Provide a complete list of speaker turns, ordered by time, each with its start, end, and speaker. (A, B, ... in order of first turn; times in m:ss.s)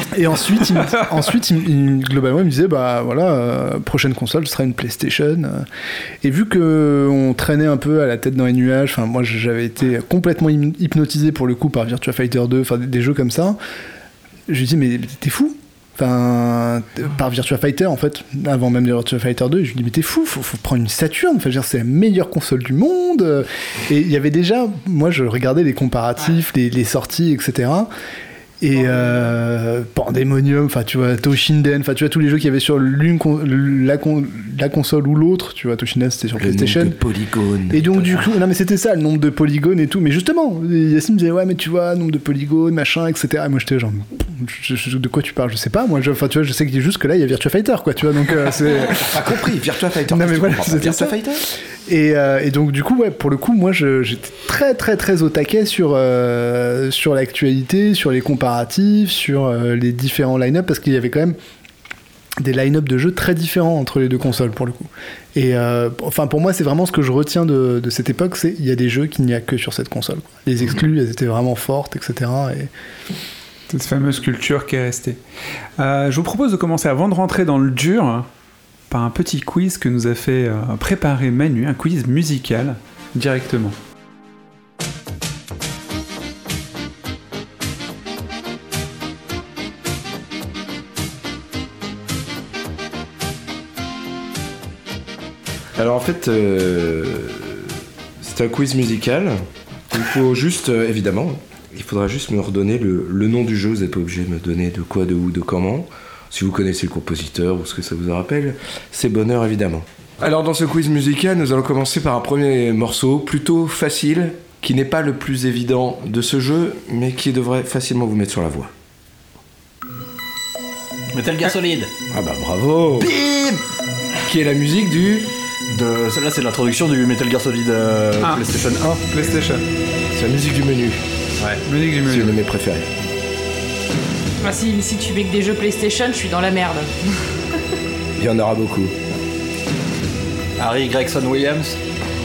0:00.1-0:05.6 A
0:06.2-0:13.6 A
0:14.5-0:27.9 A
0:28.6-0:37.0 A
0:36.4-0:38.3 B
0:37.7-0:49.4 A
0:48.9-0:51.4 B
0:50.1-0:51.2 A
0:51.9-1:01.4 A
1:02.4-1:12.7 A
1:13.7-1:15.2 C
1:15.8-1:18.3 C
1:18.9-1:23.8 C
1:35.8-1:37.7 B
1:38.2-1:39.4 B
1:39.9-1:58.7 B
2:01.1-2:01.9 D
2:02.1-2:03.2 B
2:03.0-2:03.6 D
2:04.2-2:05.3 B
2:05.7-2:09.2 D
2:08.2-2:08.5 C
2:09.1-2:09.6 C
2:10.1-2:11.0 B
2:11.4-2:11.6 D
2:11.7-2:12.4 C
2:12.0-2:12.9 B
2:14.4-2:17.3 E
2:18.2-2:18.9 B
2:20.6-2:21.8 D